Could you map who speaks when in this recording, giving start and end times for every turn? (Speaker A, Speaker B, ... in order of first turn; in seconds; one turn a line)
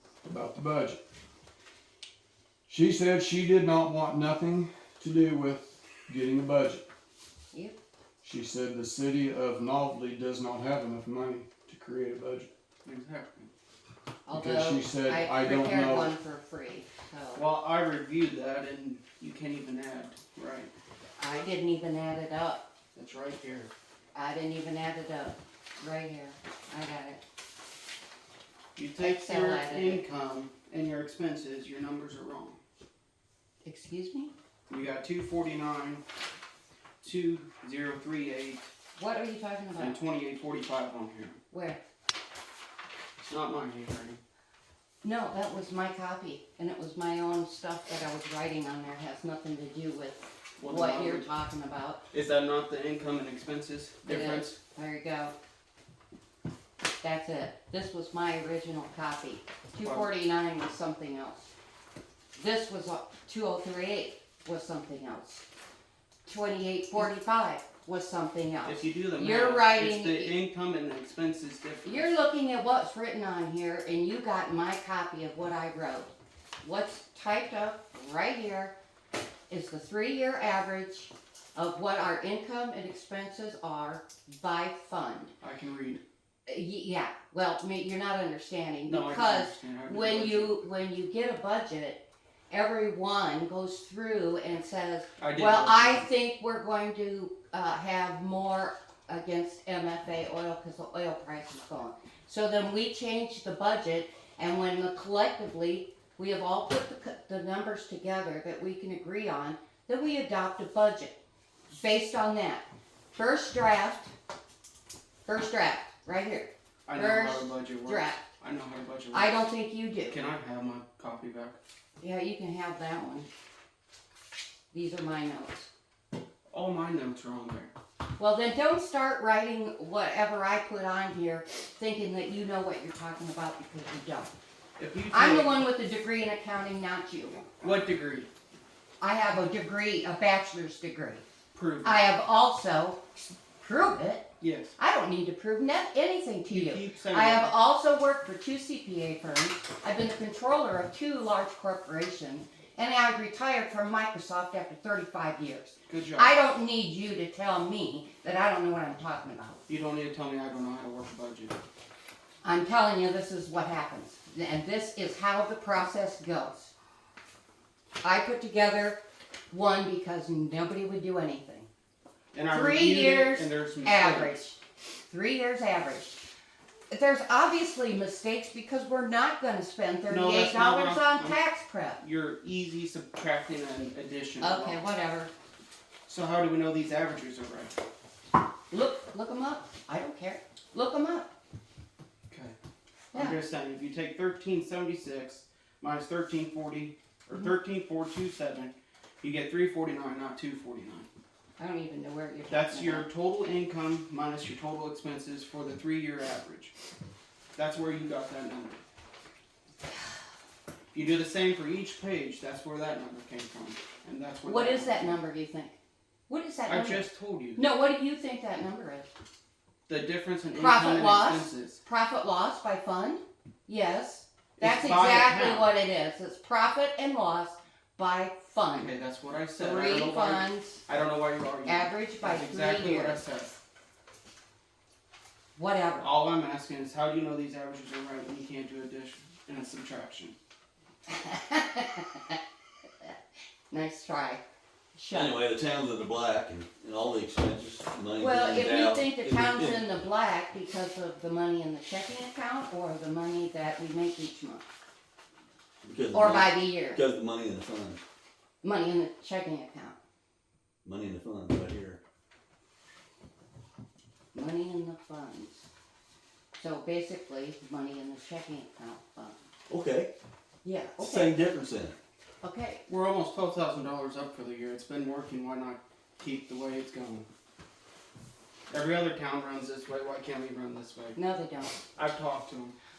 Speaker A: 0.2-1.0
Speaker A: 2.7-6.8
Speaker A: 8.2-12.5
Speaker B: 12.8-13.5
Speaker C: 14.2-17.4
Speaker A: 14.3-16.1
Speaker B: 17.3-20.7
Speaker C: 21.2-22.6
Speaker B: 22.9-23.7
Speaker C: 24.1-27.2
Speaker B: 28.8-32.6
Speaker C: 29.0-30.0
Speaker C: 33.6-34.3
Speaker B: 34.7-36.0
Speaker B: 37.0-38.7
Speaker C: 39.0-40.0
Speaker B: 39.8-41.4
Speaker C: 41.5-41.8
Speaker B: 43.2-44.2
Speaker C: 45.0-52.0
Speaker B: 50.6-51.3
Speaker B: 52.1-54.5
Speaker C: 54.0-55.3
Speaker C: 57.0-61.5
Speaker B: 59.8-60.1
Speaker C: 62.4-65.4
Speaker C: 66.2-70.3
Speaker B: 68.6-72.2
Speaker C: 71.8-78.7
Speaker C: 79.5-85.3
Speaker B: 85.4-86.0
Speaker C: 86.5-111.1
Speaker B: 88.8-90.6
Speaker B: 95.2-96.1
Speaker C: 111.7-112.6
Speaker C: 113.1-114.1
Speaker C: 115.2-118.2
Speaker B: 116.9-119.4
Speaker C: 119.1-120.2
Speaker B: 120.1-121.6
Speaker C: 122.0-123.3
Speaker C: 124.7-125.7
Speaker B: 126.5-127.7
Speaker C: 128.2-134.3
Speaker B: 134.8-135.6
Speaker C: 135.1-137.6
Speaker B: 137.6-138.3
Speaker C: 139.0-141.2
Speaker B: 141.5-142.1
Speaker C: 141.8-144.3
Speaker B: 144.4-144.7
Speaker C: 144.8-159.6
Speaker B: 146.5-147.5
Speaker B: 155.9-156.3
Speaker B: 159.7-161.6
Speaker C: 162.4-166.7
Speaker C: 168.0-171.7
Speaker B: 172.3-174.3
Speaker C: 172.5-174.6
Speaker C: 175.1-176.2
Speaker C: 176.9-182.0
Speaker B: 180.1-181.4
Speaker B: 182.0-184.8
Speaker C: 184.4-185.3
Speaker B: 186.1-187.7
Speaker C: 188.7-191.3
Speaker B: 192.3-192.6
Speaker B: 193.1-201.1
Speaker C: 201.6-203.1
Speaker B: 202.5-206.7
Speaker B: 207.5-208.8
Speaker B: 210.9-215.2
Speaker C: 214.4-215.8
Speaker C: 216.3-219.1
Speaker B: 216.7-217.6
Speaker B: 219.9-221.8
Speaker C: 220.5-228.9
Speaker B: 224.6-225.7
Speaker B: 228.8-233.5
Speaker C: 229.6-230.8
Speaker C: 231.7-233.2
Speaker C: 235.5-236.1
Speaker B: 236.0-240.3
Speaker C: 241.1-242.4
Speaker C: 243.7-244.4
Speaker C: 244.9-245.4
Speaker D: 245.1-249.8
Speaker C: 248.2-254.7
Speaker D: 255.8-258.0
Speaker C: 256.1-257.0
Speaker C: 258.6-259.9
Speaker D: 260.8-262.0
Speaker C: 264.3-265.6
Speaker C: 266.6-269.4
Speaker D: 269.7-270.1
Speaker C: 270.6-271.4
Speaker D: 271.0-271.9
Speaker C: 272.4-272.8
Speaker B: 272.9-277.3
Speaker B: 278.7-281.2
Speaker C: 281.1-281.8
Speaker B: 281.9-282.8